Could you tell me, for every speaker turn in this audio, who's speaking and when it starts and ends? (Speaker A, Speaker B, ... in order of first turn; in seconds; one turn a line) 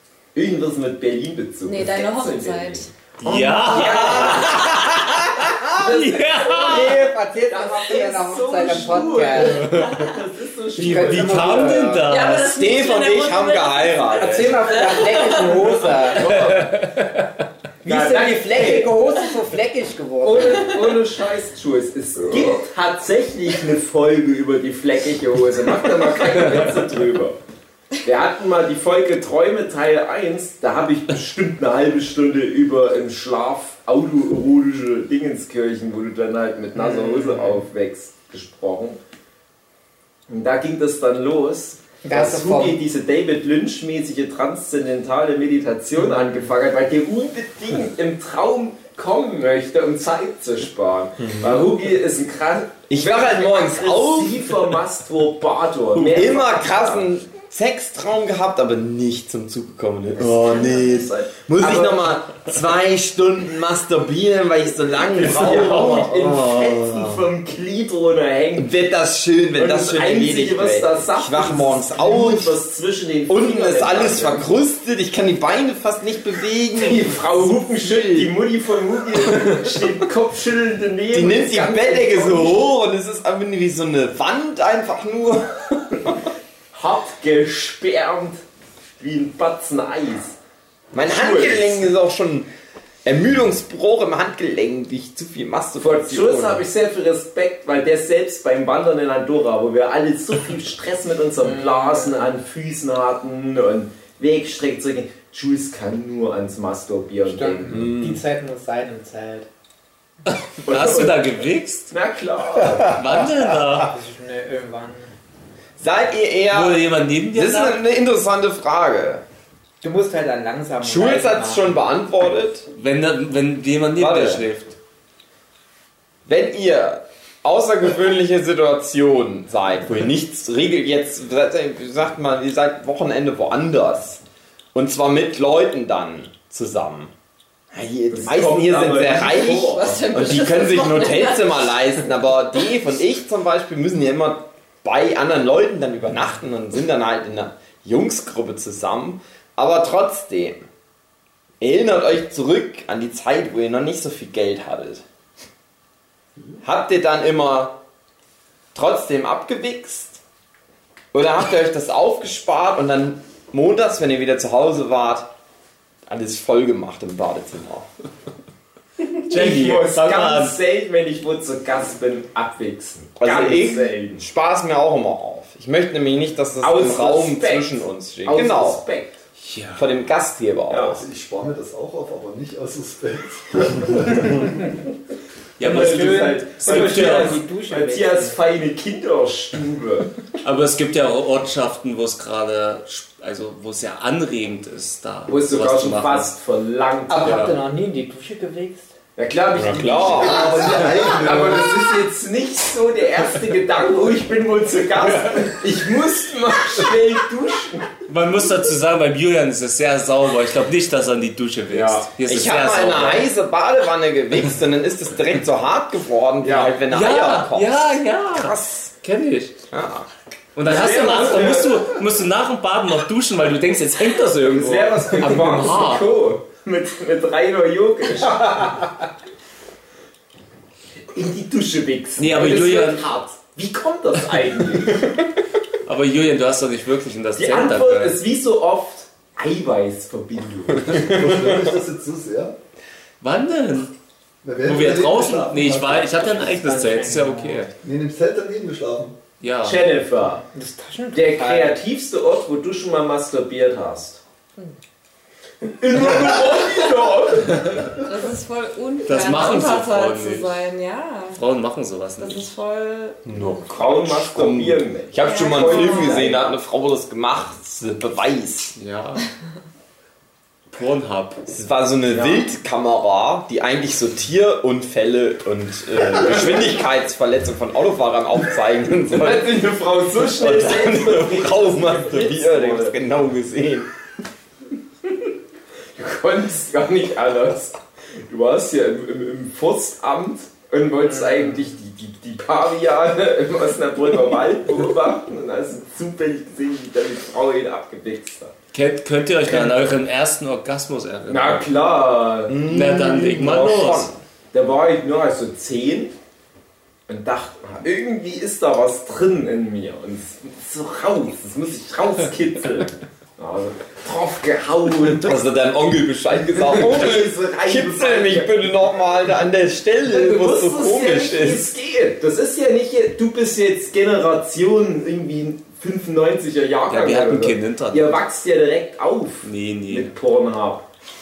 Speaker A: 0.3-4.8
Speaker B: 1.6-2.9
Speaker C: 3.2-7.0
Speaker D: 3.5-5.9
Speaker A: 5.7-11.8
Speaker E: 6.7-9.8
Speaker C: 9.6-10.0
Speaker B: 9.6-10.1
Speaker E: 10.8-12.1
Speaker C: 10.8-12.7
Speaker B: 12.1-15.6
Speaker D: 12.4-14.6
Speaker E: 14.1-16.3
Speaker A: 15.9-16.7
Speaker C: 16.1-17.3
Speaker E: 17.8-20.7
Speaker A: 17.8-18.9
Speaker A: 20.2-27.4
Speaker C: 26.3-26.6
Speaker A: 28.0-39.0
Speaker E: 36.7-37.6
Speaker A: 40.3-57.1
Speaker E: 42.0-42.8
Speaker D: 51.2-51.6
Speaker D: 52.9-54.6
Speaker D: 56.0-66.2
Speaker A: 60.2-62.0
Speaker A: 65.1-68.8
Speaker C: 65.2-67.3
Speaker D: 68.5-72.6
Speaker A: 69.5-74.5
Speaker D: 73.3-78.3
Speaker A: 76.8-82.6
Speaker D: 79.2-79.8
Speaker D: 81.1-86.2
Speaker A: 86.7-88.4
Speaker A: 89.0-90.3
Speaker A: 90.9-91.9
Speaker D: 90.9-92.5
Speaker D: 93.0-96.6
Speaker A: 95.8-107.9
Speaker E: 101.4-102.4
Speaker E: 107.2-109.5
Speaker D: 107.7-108.2
Speaker C: 110.3-111.9
Speaker A: 110.6-111.3
Speaker A: 111.9-113.0
Speaker C: 112.8-114.0
Speaker E: 113.8-115.1
Speaker D: 115.8-119.2
Speaker C: 116.5-117.8
Speaker E: 119.8-121.8
Speaker D: 120.8-122.7
Speaker C: 122.7-124.7
Speaker D: 123.9-124.5
Speaker D: 126.2-134.2
Speaker D: 134.7-137.1
Speaker D: 137.7-150.7
Speaker A: 138.1-140.1
Speaker B: 139.1-141.6
Speaker D: 151.6-155.0
Speaker D: 156.6-157.8
Speaker D: 158.7-160.2
Speaker D: 161.1-165.3
Speaker D: 166.1-167.9
Speaker A: 169.2-174.2
Speaker C: 169.3-170.6
Speaker D: 173.2-178.8
Speaker A: 176.6-179.2
Speaker C: 179.4-179.8
Speaker D: 179.7-181.0
Speaker A: 180.7-181.0
Speaker F: 181.0-184.6
Speaker C: 185.6-187.4
Speaker A: 185.6-190.1
Speaker E: 185.6-188.4
Speaker C: 190.4-196.3
Speaker A: 195.3-197.5
Speaker E: 197.1-198.9
Speaker C: 197.2-197.5
Speaker A: 199.2-207.9
Speaker C: 199.6-200.0
Speaker D: 199.6-201.0
Speaker F: 200.1-201.8
Speaker C: 205.0-205.6
Speaker C: 208.1-213.3
Speaker A: 211.7-212.1
Speaker D: 212.2-218.9
Speaker A: 216.4-216.7
Speaker C: 216.6-219.6
Speaker D: 219.7-220.1
Speaker C: 220.5-226.1
Speaker A: 220.6-221.9
Speaker A: 224.5-228.8
Speaker A: 231.1-235.1
Speaker C: 232.2-233.1
Speaker C: 235.8-238.2
Speaker A: 237.4-241.2
Speaker F: 240.9-242.5
Speaker C: 243.2-243.9
Speaker F: 244.4-246.1
Speaker C: 244.6-247.7
Speaker E: 246.2-247.7
Speaker F: 247.8-249.2
Speaker C: 249.4-249.9
Speaker A: 249.6-250.4
Speaker E: 250.5-251.8
Speaker A: 251.1-254.2
Speaker A: 255.6-257.9
Speaker B: 258.0-261.4
Speaker C: 259.1-260.6
Speaker C: 261.4-262.5
Speaker B: 262.2-263.7
Speaker D: 263.3-268.7
Speaker A: 263.7-266.5
Speaker B: 265.2-266.3
Speaker C: 268.8-269.2
Speaker C: 270.7-271.4
Speaker D: 271.5-279.6
Speaker A: 272.1-272.4
Speaker A: 279.1-282.9
Speaker D: 280.2-283.9
Speaker A: 285.9-298.5
Speaker E: 291.1-291.7
Speaker C: 298.7-301.6
Speaker A: 299.5-299.8
Speaker A: 301.3-302.6
Speaker D: 302.5-304.1
Speaker C: 302.6-304.1
Speaker A: 304.5-306.1
Speaker A: 307.1-315.4
Speaker D: 315.1-321.7
Speaker A: 316.5-318.6
Speaker A: 320.1-330.8
Speaker C: 326.9-328.2
Speaker C: 329.4-330.1